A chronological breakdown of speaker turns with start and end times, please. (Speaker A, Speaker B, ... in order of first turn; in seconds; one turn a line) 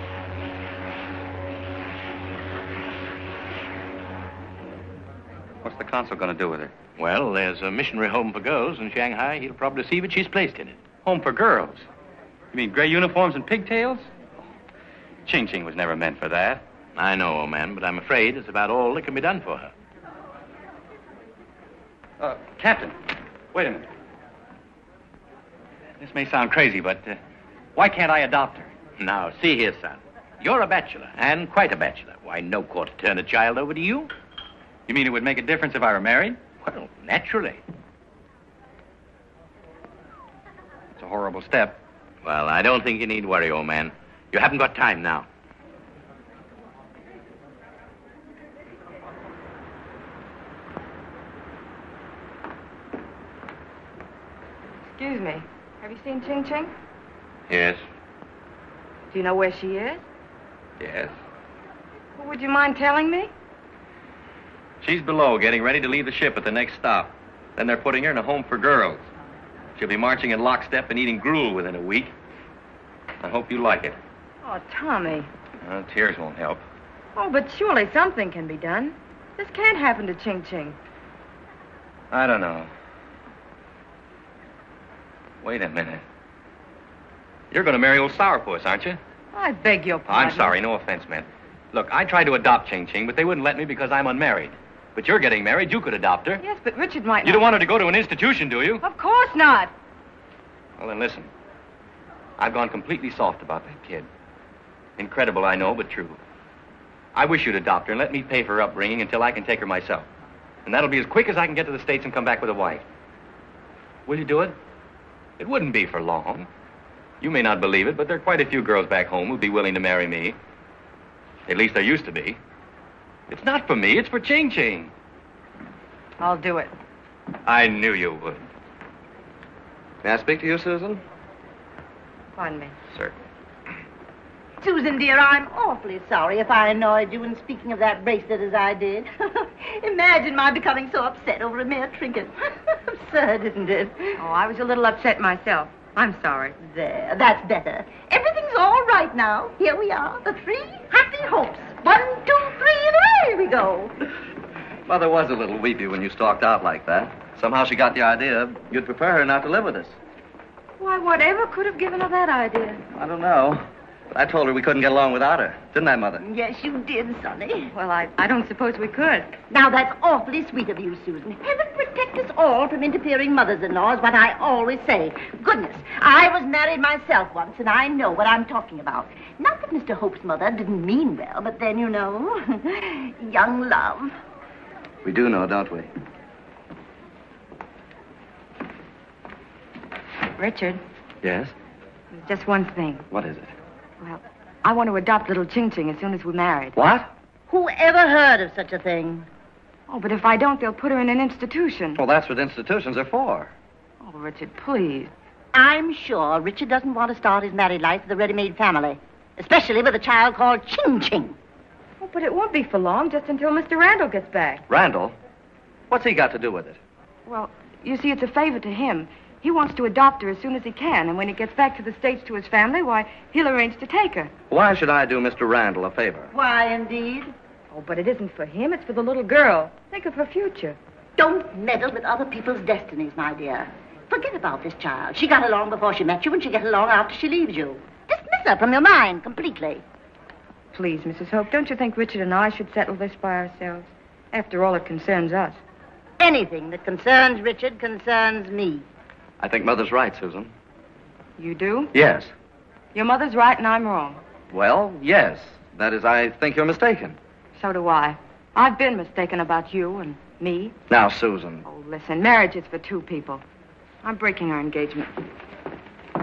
Speaker A: 5.6-6.7
Speaker B: 7.0-10.8
Speaker A: 11.1-11.9
Speaker A: 12.5-14.1
Speaker A: 15.3-16.6
Speaker B: 17.0-19.7
Speaker A: 22.2-22.9
Speaker A: 23.5-23.9
Speaker A: 26.0-27.2
Speaker A: 27.8-28.7
Speaker B: 29.0-34.1
Speaker A: 34.9-36.4
Speaker B: 36.6-37.6
Speaker A: 41.0-41.8
Speaker B: 42.2-45.3
Speaker C: 54.9-56.7
Speaker D: 57.5-57.8
Speaker C: 59.1-60.0
Speaker A: 60.8-61.1
Speaker C: 62.2-63.3
Speaker A: 64.8-69.1
Speaker A: 69.8-72.1
Speaker A: 73.2-74.0
Speaker C: 74.4-75.3
Speaker A: 75.6-76.6
Speaker C: 77.2-80.8
Speaker A: 82.1-82.7
Speaker A: 85.4-86.0
Speaker A: 87.5-89.0
Speaker C: 89.3-90.5
Speaker A: 90.1-96.4
Speaker C: 96.4-97.5
Speaker A: 97.2-98.8
Speaker C: 98.8-99.7
Speaker A: 100.8-101.3
Speaker A: 102.4-104.1
Speaker A: 105.0-106.2
Speaker A: 107.2-110.1
Speaker A: 110.7-112.8
Speaker A: 114.1-114.6
Speaker A: 115.4-116.5
Speaker A: 117.2-120.4
Speaker A: 121.5-122.4
Speaker A: 123.3-124.9
Speaker C: 126.2-126.7
Speaker A: 127.5-128.5
Speaker D: 130.0-131.0
Speaker C: 132.4-132.8
Speaker E: 134.6-144.2
Speaker C: 144.2-146.6
Speaker E: 146.6-153.9
Speaker D: 154.9-160.0
Speaker C: 160.8-162.8
Speaker D: 162.9-166.2
Speaker E: 166.2-167.7
Speaker C: 167.7-169.3
Speaker E: 169.5-184.2
Speaker D: 185.0-185.9
Speaker C: 190.4-190.8
Speaker D: 191.2-191.5
Speaker C: 192.1-193.1
Speaker D: 193.1-193.5
Speaker C: 194.0-196.8
Speaker D: 196.8-197.1
Speaker E: 197.5-199.3
Speaker C: 199.9-202.0
Speaker D: 201.9-203.5
Speaker C: 204.0-205.1
Speaker E: 205.5-211.4
Speaker C: 212.0-214.6
Speaker D: 214.7-215.2
Speaker D: 215.9-216.8
Speaker C: 217.3-224.3
Speaker D: 224.5-226.3
Speaker E: 226.3-227.3
Speaker C: 227.7-230.8
Speaker E: 231.2-239.8
Speaker C: 240.7-245.6
Speaker E: 246.2-248.8
Speaker D: 249.4-250.5
Speaker C: 251.4-251.9
Speaker D: 251.9-252.3
Speaker C: 252.9-254.2
Speaker D: 254.5-257.2
Speaker C: 257.6-260.8
Speaker D: 260.9-261.6
Speaker C: 261.6-263.4
Speaker C: 264.0-265.1